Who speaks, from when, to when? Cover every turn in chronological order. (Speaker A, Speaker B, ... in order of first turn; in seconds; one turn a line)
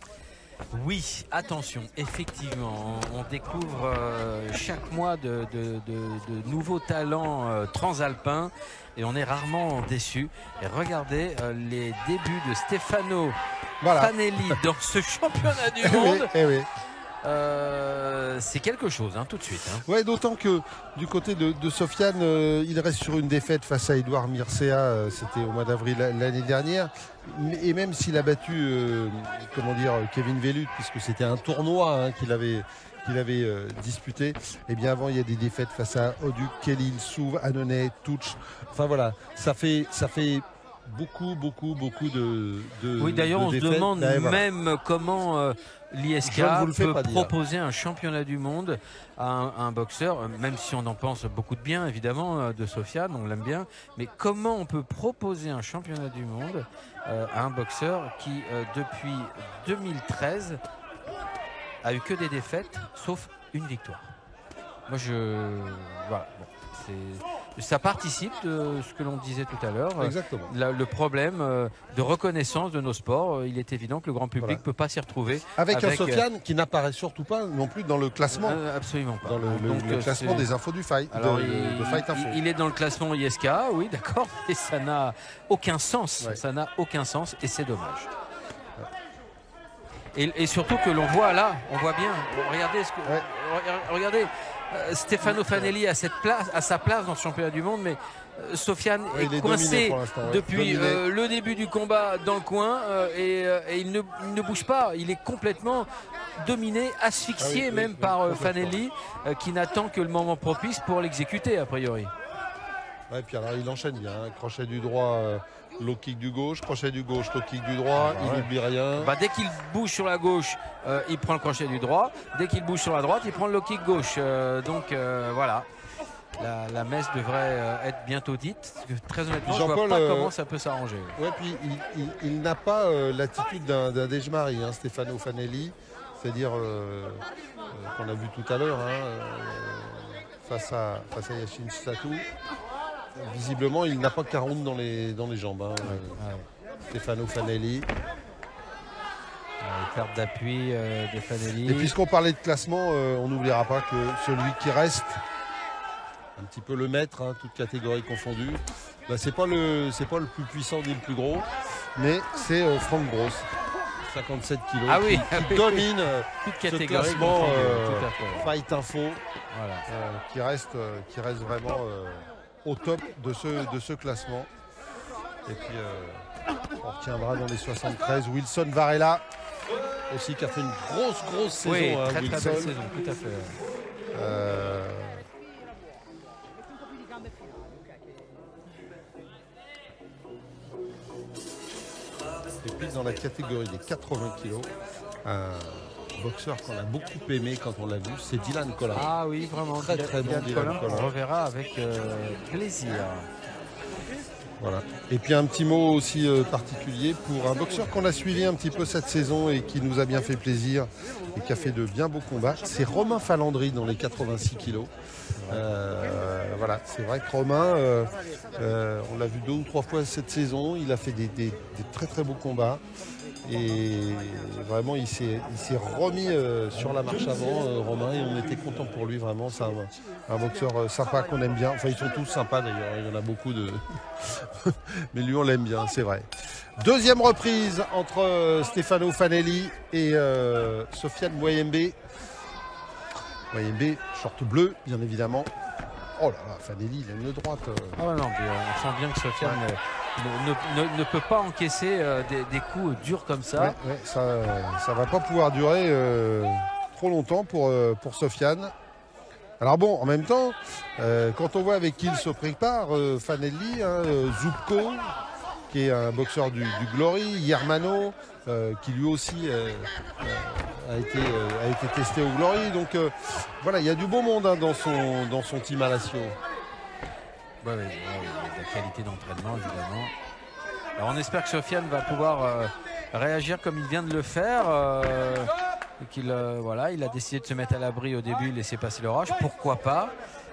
Speaker A: 0.7-13.3
Speaker B: 13.8-14.6
Speaker A: 13.9-16.3
Speaker B: 15.8-16.7
Speaker A: 17.2-19.8
Speaker B: 19.8-44.4
Speaker A: 43.0-60.6
Speaker B: 46.2-47.3
Speaker A: 61.8-64.1
Speaker A: 64.9-76.2
Speaker B: 70.0-70.5
Speaker B: 75.6-78.6
Speaker A: 78.3-80.5
Speaker B: 79.2-82.4
Speaker A: 81.1-88.1
Speaker A: 90.1-105.9
Speaker B: 95.2-95.7
Speaker B: 99.1-101.0
Speaker A: 106.4-112.1
Speaker B: 107.4-108.8
Speaker B: 113.1-119.1
Speaker A: 117.9-125.7
Speaker A: 126.4-131.2
Speaker B: 129.5-130.3
Speaker B: 131.2-142.2
Speaker B: 143.2-146.2
Speaker A: 145.8-146.5
Speaker B: 146.9-147.9
Speaker A: 149.6-151.9
Speaker B: 151.7-155.2
Speaker B: 156.4-163.5
Speaker B: 164.0-169.2
Speaker A: 164.9-165.9
Speaker A: 166.4-168.6
Speaker A: 169.5-169.8
Speaker B: 169.9-174.5
Speaker B: 175.5-176.2
Speaker B: 176.8-179.2
Speaker B: 180.1-182.7
Speaker A: 181.6-183.6
Speaker B: 184.1-185.2
Speaker B: 192.6-194.7
Speaker B: 195.2-199.1
Speaker A: 198.9-203.3
Speaker B: 199.7-201.1
Speaker B: 204.6-214.9
Speaker A: 215.4-215.6
Speaker B: 215.5-222.8
Speaker B: 223.4-236.2
Speaker B: 236.8-242.0
Speaker B: 243.5-245.5
Speaker B: 246.2-248.0
Speaker A: 248.0-253.8
Speaker B: 253.6-258.7
Speaker B: 259.6-265.2
Speaker B: 265.7-276.4
Speaker A: 277.6-280.1
Speaker A: 281.0-290.1